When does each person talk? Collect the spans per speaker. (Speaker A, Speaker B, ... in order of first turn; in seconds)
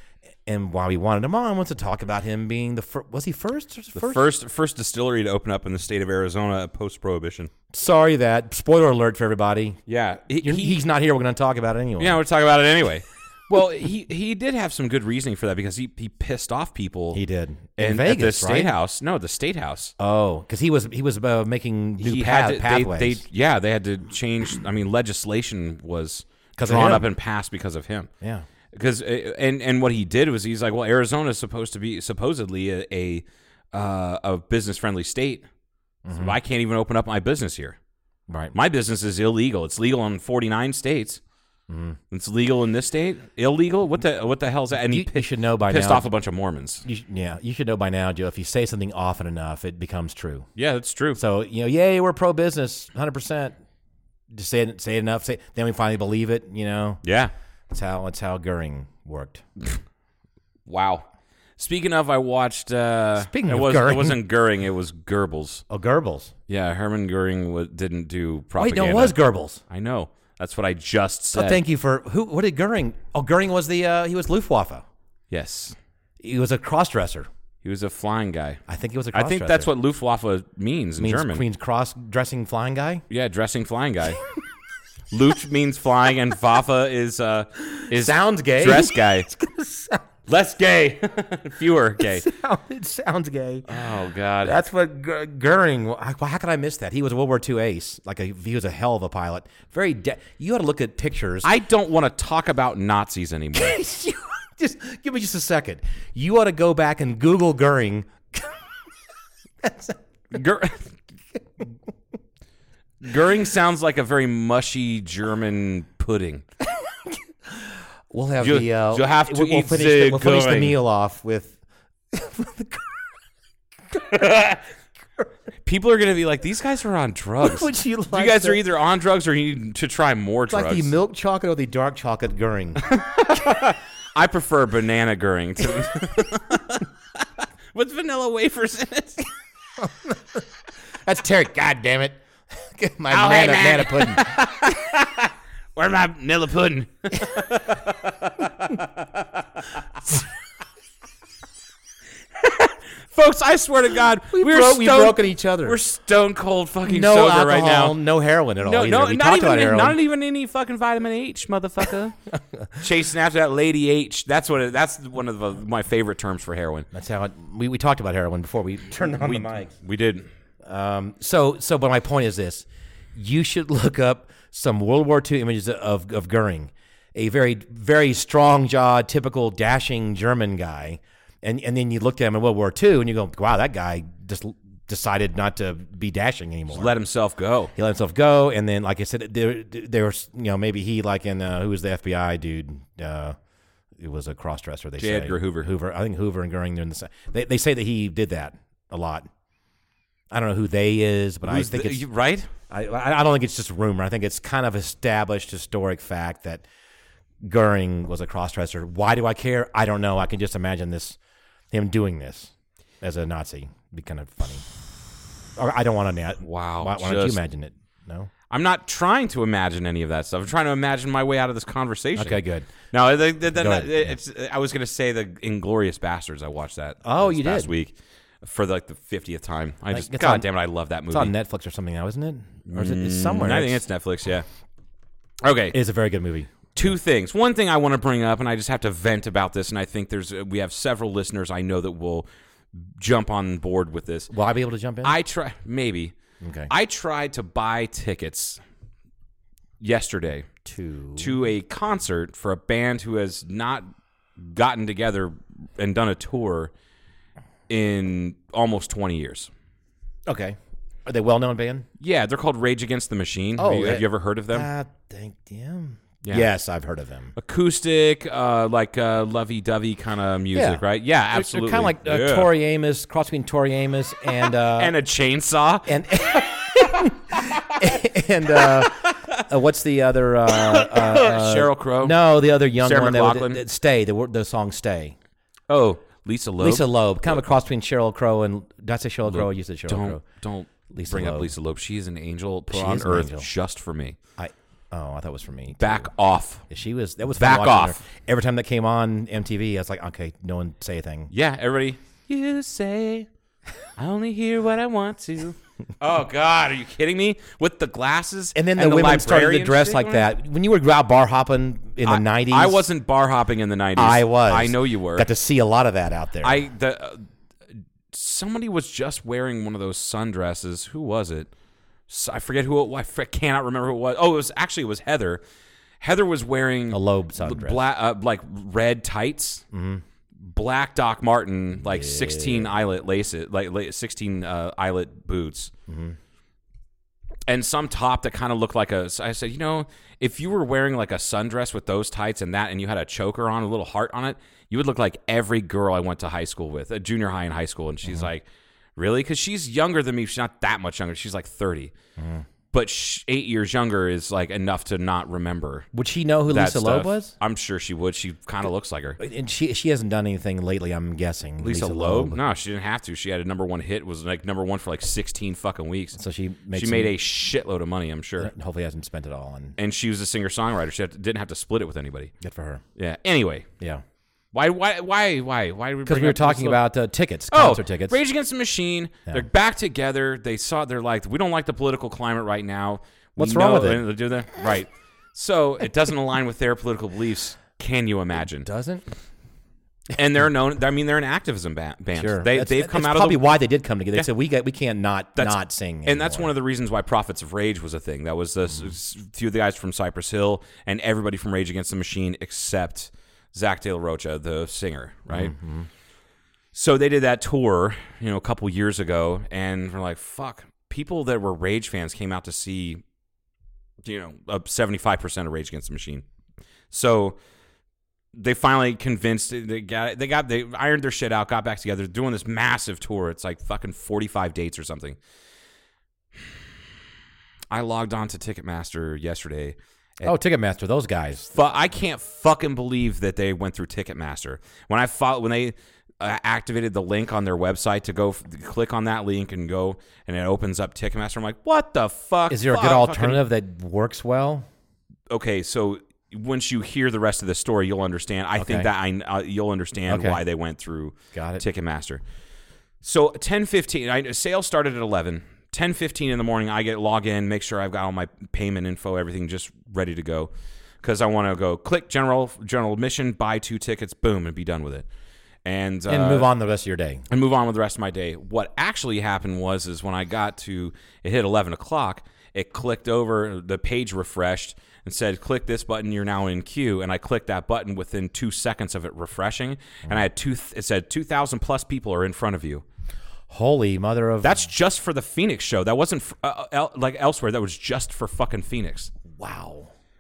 Speaker A: 0.5-4.3, 7.7-9.8, 10.4-12.2, 17.1-18.7, 20.0-23.2, 26.6-27.1, 28.2-28.5, 36.0-36.4, 38.3-38.5, 41.7-42.0, 44.9-46.1, 46.8-50.5, 51.2-53.6, 54.3-57.0, 57.7-59.4, 63.2-64.2, 65.7-66.3, 68.6-69.6, 71.3-74.8, 76.2-77.3, 78.7-79.7, 81.0-83.0, 87.9-90.0, 92.0-93.7, 94.4-101.5, 103.5-108.7, 109.6-110.0, 117.1-121.6, 122.1-123.0, 123.9-124.5, 127.4-128.6, 130.5-132.9, 139.8-140.4, 141.1-144.5, 154.3-155.8, 156.8-160.0, 166.9-169.7, 170.6-186.9, 187.8-193.4, 194.0-199.3, 200.3-202.0, 202.7-206.7, 207.4-211.2, 211.7-214.7, 215.6-218.3, 222.2-222.7, 223.5-224.1, 227.0-227.8, 229.9-230.5, 231.1-233.8, 235.7-236.9, 244.3-245.2, 246.4-246.7, 250.7-251.4, 260.3-261.9, 263.6-267.4, 270.5-270.8, 271.3-274.9, 275.9-285.2, 286.6-290.2, 290.9-291.5, 292.7-293.5, 294.4-296.1, 296.7-301.3, 308.6-312.8, 314.0-316.6, 326.9-327.8, 329.7-330.0, 331.8-332.7, 335.9-336.2, 352.2-352.5, 355.9-357.4, 359.2-362.4, 366.2-367.1, 368.4-369.8, 372.4-372.8, 376.1-378.2, 383.4-384.1, 388.6-389.1, 392.1-396.5, 405.3-405.9, 430.2-431.5, 442.5-444.7, 448.6-448.9, 450.1-450.4, 451.3-451.6, 466.1-467.3, 483.5-484.7, 489.3-489.9
Speaker B: 4.0-7.5, 9.9-10.8, 12.0-17.2, 17.8-19.9, 22.0-28.1, 28.7-35.5, 36.1-37.8, 38.5-41.2, 42.1-46.8, 50.6-51.2, 57.0-57.3, 60.7-61.1, 61.6-65.6, 66.5-69.2, 69.7-71.6, 75.3-75.8, 77.6-78.6, 79.1-81.4, 83.1-84.2, 85.1-89.3, 90.3-92.3, 93.7-94.6, 101.4-103.8, 110.3-111.0, 113.0-116.5, 118.4-120.8, 125.7-130.9, 132.9-136.9, 137.7-139.2, 143.1-145.2, 145.8-149.1, 152.4-158.0, 158.6-162.2, 162.8-166.9, 169.1-170.3, 186.7-187.7, 195.0-195.7, 201.4-202.5, 216.4-217.4, 218.5-231.3, 232.7-234.5, 235.4-235.8, 236.7-244.3, 245.0-246.2, 246.7-248.6, 249.8-250.5, 251.2-256.7, 257.7-259.5, 262.0-264.7, 267.4-272.5, 274.7-277.1, 278.6-279.4, 280.5-282.2, 282.8-283.6, 285.7-286.9, 289.3-294.2, 295.8-296.6, 297.4-298.0, 301.3-303.3, 304.0-310.3, 312.0-315.3, 316.4-317.3, 318.1-321.5, 322.1-325.4, 326.0-329.6, 330.4-335.7, 337.5-348.4, 349.0-351.9, 352.7-355.9, 356.5-359.2, 361.6-366.2, 366.7-368.5, 369.8-372.3, 373.0-373.7, 374.5-376.9, 377.5-388.7, 390.1-393.5, 395.4-405.5, 406.7-413.0, 414.0-416.2, 416.9-417.4, 418.3-425.2, 427.7-430.3, 431.5-443.4, 445.3-452.2, 453.0-460.5, 461.0-465.1, 465.6-466.5, 467.3-482.8, 484.4-489.1